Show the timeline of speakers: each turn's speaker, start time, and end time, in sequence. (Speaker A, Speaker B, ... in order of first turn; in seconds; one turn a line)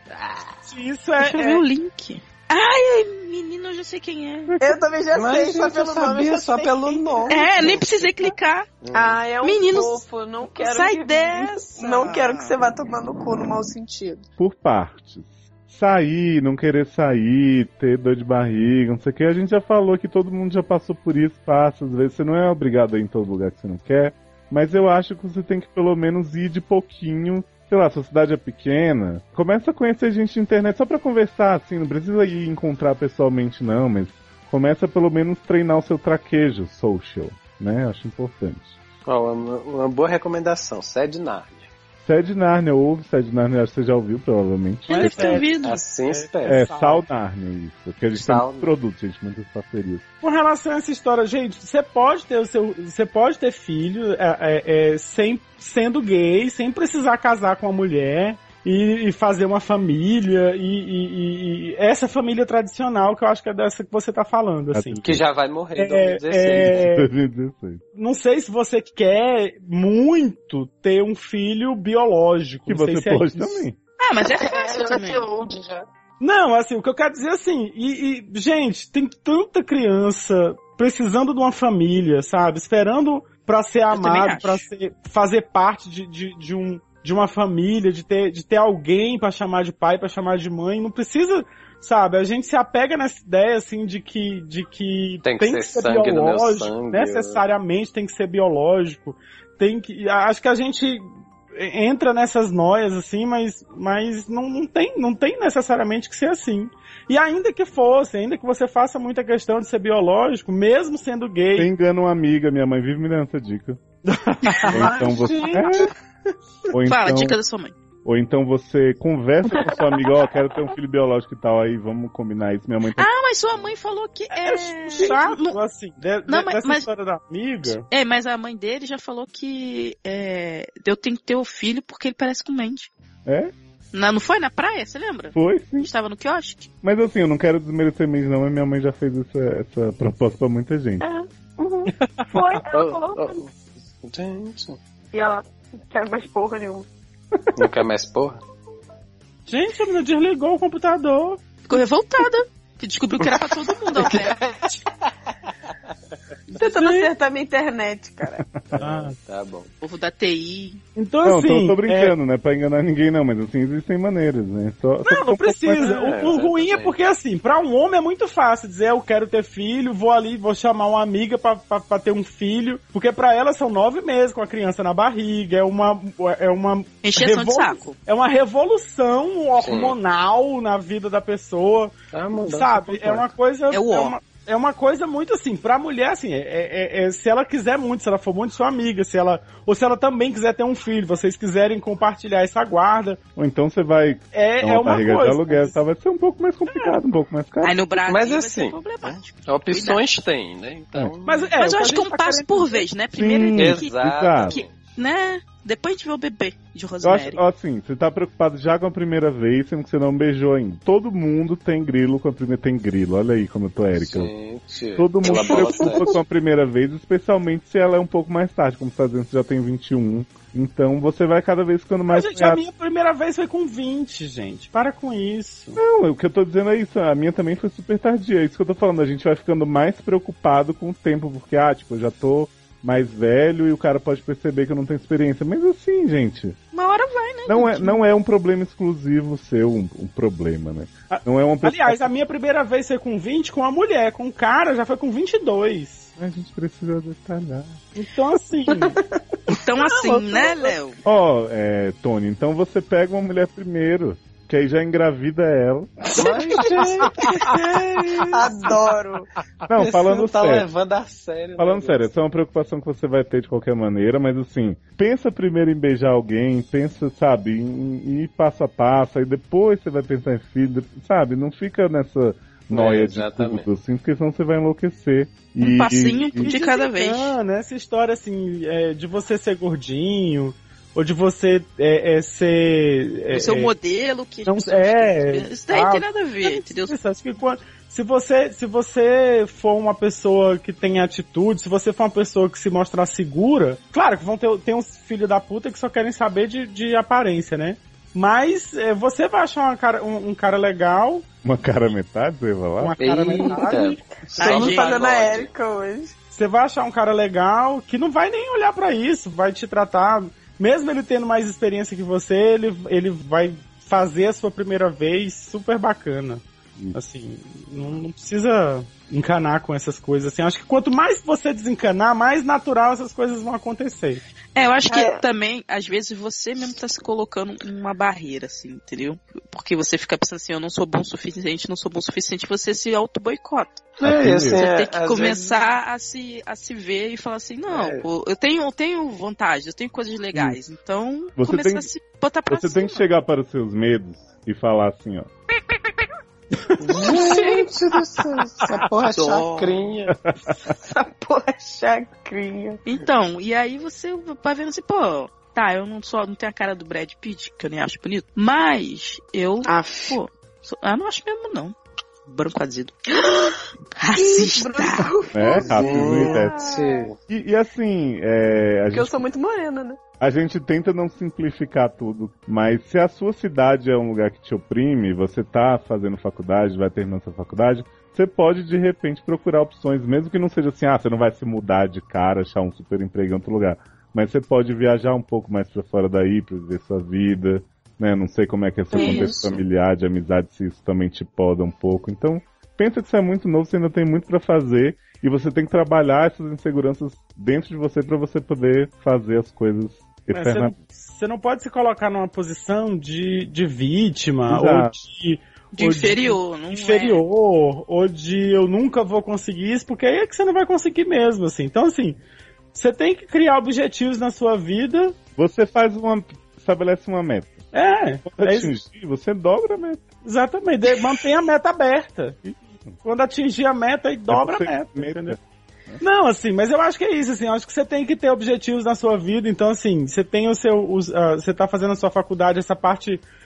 Speaker A: 0.6-1.6
Speaker B: 1.2-4.5
Speaker C: 4.5-4.8
Speaker D: 4.6-7.5
Speaker E: 5.1-8.3
Speaker B: 7.3-8.7
Speaker E: 8.8-9.3
Speaker D: 8.9-14.3
Speaker B: 9.4-12.5
Speaker C: 14.4-38.8
Speaker E: 39.1-41.7
Speaker C: 42.0-45.5
Speaker B: 44.9-45.8
Speaker A: 44.9-47.0
Speaker E: 45.6-46.7
Speaker C: 46.5-50.0
Speaker E: 48.1-48.7
Speaker A: 50.2-65.1
Speaker C: 64.7-65.2
Speaker E: 65.0-66.9
Speaker A: 65.8-67.1
Speaker C: 66.7-67.8
Speaker A: 68.0-73.6
Speaker C: 72.7-73.8
Speaker B: 74.0-75.3
Speaker D: 74.4-75.8
Speaker A: 76.2-111.7
Speaker B: 83.9-84.7
Speaker E: 95.2-97.5
Speaker C: 111.5-113.8
Speaker A: 114.0-115.2
Speaker E: 114.7-115.9
Speaker C: 114.7-115.9
Speaker C: 116.7-117.4
Speaker B: 116.9-117.7
Speaker C: 118.0-123.1
Speaker B: 123.0-125.6
Speaker A: 124.3-127.8
Speaker B: 126.3-126.9
Speaker B: 127.9-132.9
Speaker C: 133.3-133.5
Speaker B: 133.9-136.7
Speaker C: 135.3-135.9
Speaker C: 136.8-141.1
Speaker D: 141.0-143.4
Speaker E: 142.7-143.5
Speaker E: 144.0-144.8
Speaker D: 145.1-146.9
Speaker E: 147.6-148.4
Speaker A: 149.5-151.4
Speaker B: 151.7-154.4
Speaker E: 153.9-154.8
Speaker D: 156.5-158.5
Speaker E: 156.5-157.1
Speaker C: 158.7-159.1
Speaker A: 158.8-159.2
Speaker E: 158.8-159.7
Speaker B: 159.8-160.8
Speaker A: 161.0-162.2
Speaker C: 161.2-166.0
Speaker A: 165.0-193.2
Speaker E: 165.8-166.9
Speaker B: 177.0-178.0
Speaker E: 179.6-180.0
Speaker E: 182.1-183.3
Speaker B: 183.7-184.2
Speaker C: 193.4-197.8
Speaker A: 194.3-195.8
Speaker A: 196.7-197.0
Speaker B: 197.6-200.0
Speaker E: 198.1-201.6
Speaker A: 201.2-202.9
Speaker B: 201.6-207.4
Speaker C: 203.2-204.6
Speaker E: 203.6-204.7
Speaker C: 207.0-214.3
Speaker E: 214.0-216.2
Speaker C: 215.0-222.6
Speaker D: 215.5-216.2
Speaker A: 222.1-225.8
Speaker C: 225.8-236.6
Speaker B: 236.7-238.0
Speaker C: 237.5-242.1
Speaker A: 241.1-246.1
Speaker C: 246.2-247.8
Speaker A: 248.0-249.0
Speaker B: 249.5-251.0
Speaker A: 249.8-250.7
Speaker C: 251.1-256.1
Speaker E: 256.2-258.6
Speaker D: 258.3-259.3
Speaker C: 259.7-260.7
Speaker E: 259.7-262.0
Speaker C: 261.6-276.5
Speaker E: 272.7-273.7
Speaker B: 275.6-277.4
Speaker A: 276.4-283.7
Speaker B: 283.3-286.9
Speaker A: 284.4-301.3
Speaker C: 301.4-303.0
Speaker A: 302.8-304.0
Speaker E: 303.0-305.5
Speaker D: 303.6-303.8
Speaker D: 304.3-306.2
Speaker B: 304.4-304.9
Speaker A: 306.3-324.2
Speaker B: 324.6-333.9
Speaker D: 324.9-325.2
Speaker E: 334.0-335.7
Speaker C: 334.0-334.6
Speaker B: 334.5-343.0
Speaker E: 337.7-338.1
Speaker C: 341.4-341.9
Speaker C: 342.5-345.3
Speaker E: 346.8-350.2
Speaker A: 346.9-347.2
Speaker D: 346.9-347.7
Speaker D: 348.5-348.8
Speaker B: 349.1-349.8
Speaker C: 350.1-350.6
Speaker D: 350.7-352.8
Speaker B: 352.9-361.8
Speaker D: 359.6-360.2
Speaker B: 362.3-363.1
Speaker D: 363.2-363.6
Speaker B: 364.0-365.1
Speaker D: 364.1-367.1
Speaker C: 365.3-366.6
Speaker E: 365.6-367.2
Speaker C: 367.3-369.2
Speaker D: 368.9-370.0
Speaker C: 370.2-400.7
Speaker D: 388.9-389.5
Speaker B: 388.9-389.3
Speaker A: 400.3-412.2
Speaker C: 404.5-404.9
Speaker B: 405.7-407.2
Speaker A: 412.7-415.2
Speaker C: 415.4-417.7
Speaker A: 417.7-418.8
Speaker C: 418.2-420.1
Speaker A: 420.2-422.4
Speaker C: 422.5-423.0
Speaker A: 423.0-425.4
Speaker C: 424.3-426.0
Speaker A: 426.0-433.2